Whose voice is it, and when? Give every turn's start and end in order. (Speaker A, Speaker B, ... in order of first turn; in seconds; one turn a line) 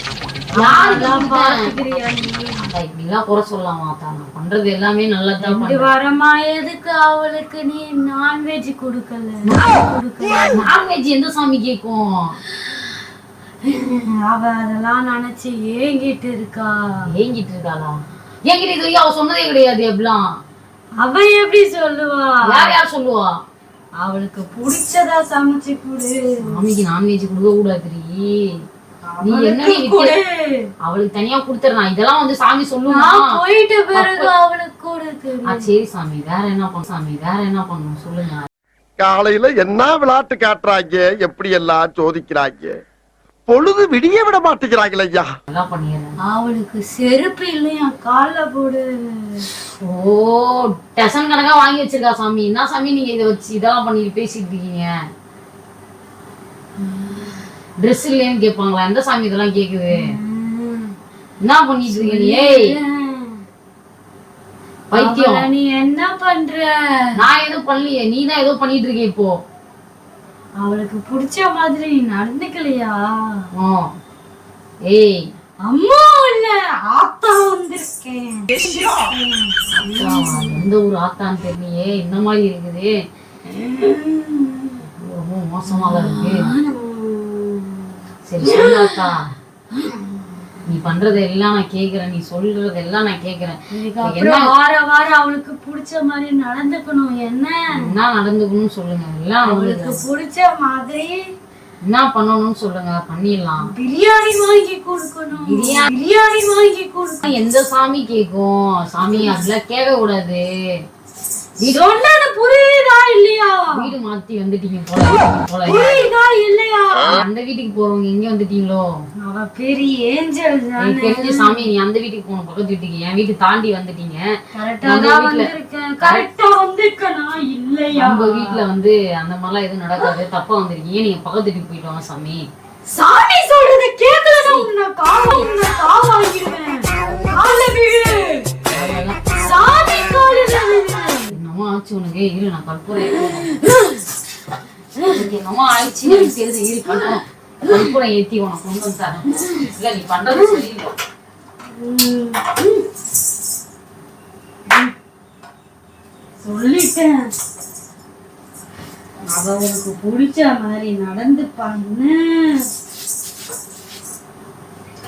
Speaker A: 0.6-1.7
Speaker B: 0.6-2.7
Speaker A: 2.7-5.9
Speaker B: 5.4-10.6
Speaker A: 10.5-12.4
Speaker B: 12.5-12.9
Speaker B: 13.6-17.0
Speaker A: 17.1-17.9
Speaker A: 18.5-20.3
Speaker B: 21.0-22.7
Speaker A: 22.5-23.3
Speaker B: 24.0-26.4
Speaker A: 26.4-28.6
Speaker B: 29.1-30.7
Speaker A: 29.2-30.1
Speaker A: 30.8-33.3
Speaker B: 32.9-35.7
Speaker A: 33.9-34.3
Speaker A: 35.5-38.5
Speaker C: 39.0-42.7
Speaker C: 43.5-45.3
Speaker A: 45.5-46.1
Speaker B: 46.2-49.5
Speaker A: 49.8-54.9
Speaker B: 56.8-57.5
Speaker A: 57.8-60.1
Speaker B: 59.9-60.9
Speaker A: 61.4-62.7
Speaker B: 61.9-63.4
Speaker A: 64.9-65.5
Speaker B: 64.9-67.2
Speaker A: 67.2-69.4
Speaker B: 70.6-73.5
Speaker A: 73.5-73.9
Speaker A: 74.9-75.3
Speaker B: 75.6-80.6
Speaker A: 79.7-83.0
Speaker B: 83.5-84.8
Speaker A: 85.0-86.5
Speaker B: 85.7-89.0
Speaker A: 88.3-89.3
Speaker B: 89.7-90.0
Speaker A: 90.7-94.5
Speaker B: 93.7-97.8
Speaker A: 97.7-100.0
Speaker B: 99.4-101.2
Speaker A: 101.9-103.7
Speaker B: 103.6-107.3
Speaker A: 105.5-105.9
Speaker A: 107.2-110.4
Speaker B: 109.1-109.4
Speaker B: 111.6-113.9
Speaker A: 113.7-115.9
Speaker B: 115.7-117.2
Speaker A: 117.1-118.9
Speaker B: 119.2-121.7
Speaker A: 120.8-124.3
Speaker B: 124.5-128.6
Speaker A: 124.8-125.5
Speaker A: 126.0-126.2
Speaker A: 128.0-132.4
Speaker B: 132.9-138.5
Speaker A: 138.7-139.6
Speaker B: 139.4-141.3
Speaker A: 141.3-143.5
Speaker B: 143.0-144.0
Speaker B: 144.9-145.2
Speaker A: 145.1-150.9
Speaker B: 146.0-146.3
Speaker B: 146.9-147.9
Speaker B: 149.3-149.7
Speaker B: 151.7-152.8
Speaker B: 154.7-154.9
Speaker B: 156.4-157.3
Speaker A: 159.3-159.8
Speaker B: 159.7-162.7